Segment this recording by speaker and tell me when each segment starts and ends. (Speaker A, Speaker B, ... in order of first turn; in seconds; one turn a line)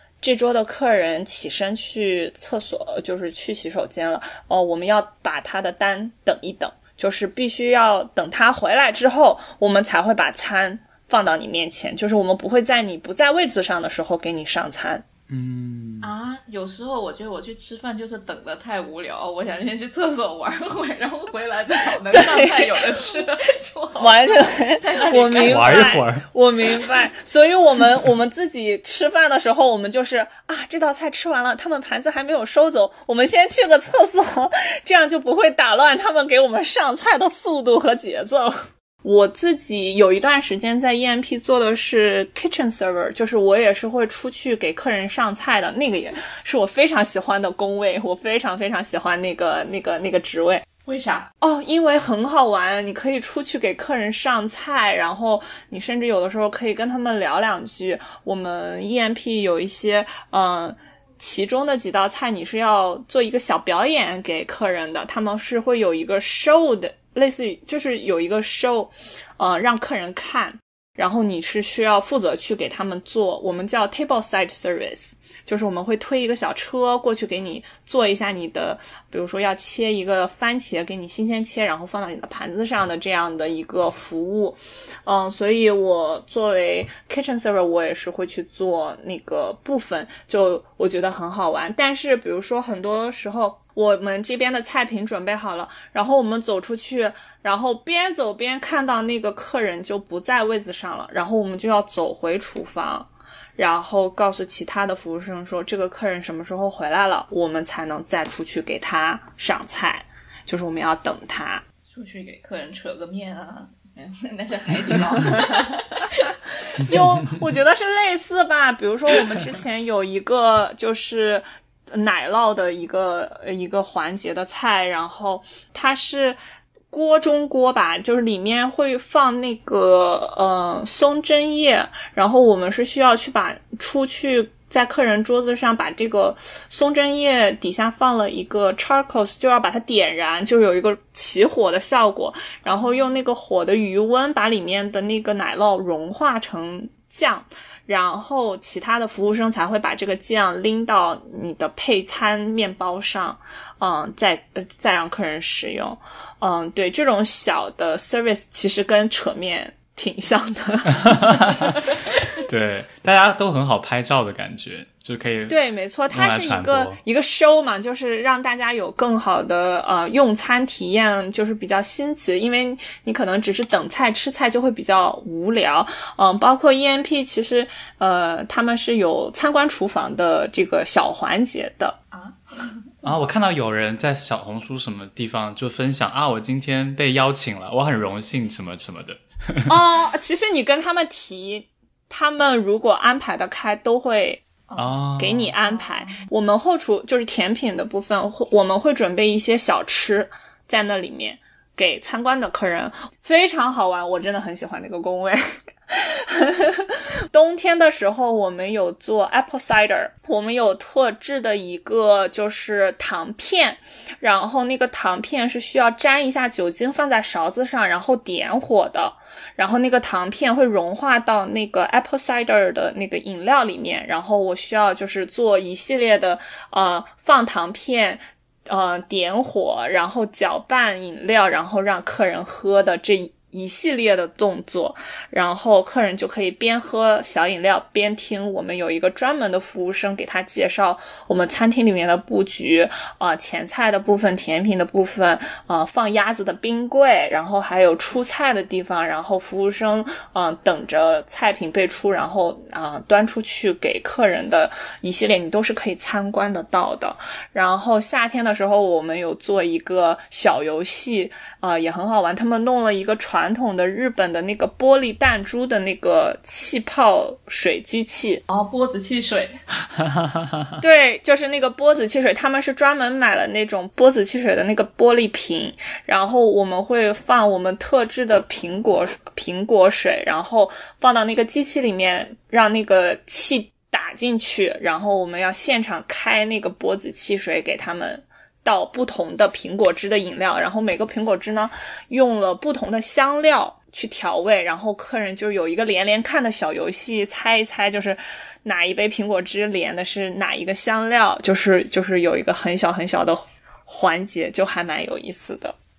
Speaker A: 0.2-15.0
Speaker B: 15.3-16.1
Speaker C: 16.0-26.0
Speaker A: 22.1-22.8
Speaker A: 24.0-50.6
Speaker B: 25.4-26.3
Speaker C: 50.9-51.3
Speaker A: 51.4-111.6
Speaker C: 111.9-116.3
Speaker A: 116.8-126.4
Speaker A: 126.9-161.6
Speaker B: 161.1-165.6
Speaker A: 165.5-182.0
Speaker B: 166.1-167.0
Speaker C: 182.1-183.2
Speaker B: 183.0-189.8
Speaker A: 189.7-194.4
Speaker C: 194.7-195.1
Speaker B: 194.8-195.5
Speaker A: 195.2-268.4
Speaker C: 195.6-196.3
Speaker C: 268.5-269.6
Speaker B: 269.9-270.8
Speaker A: 270.8-305.8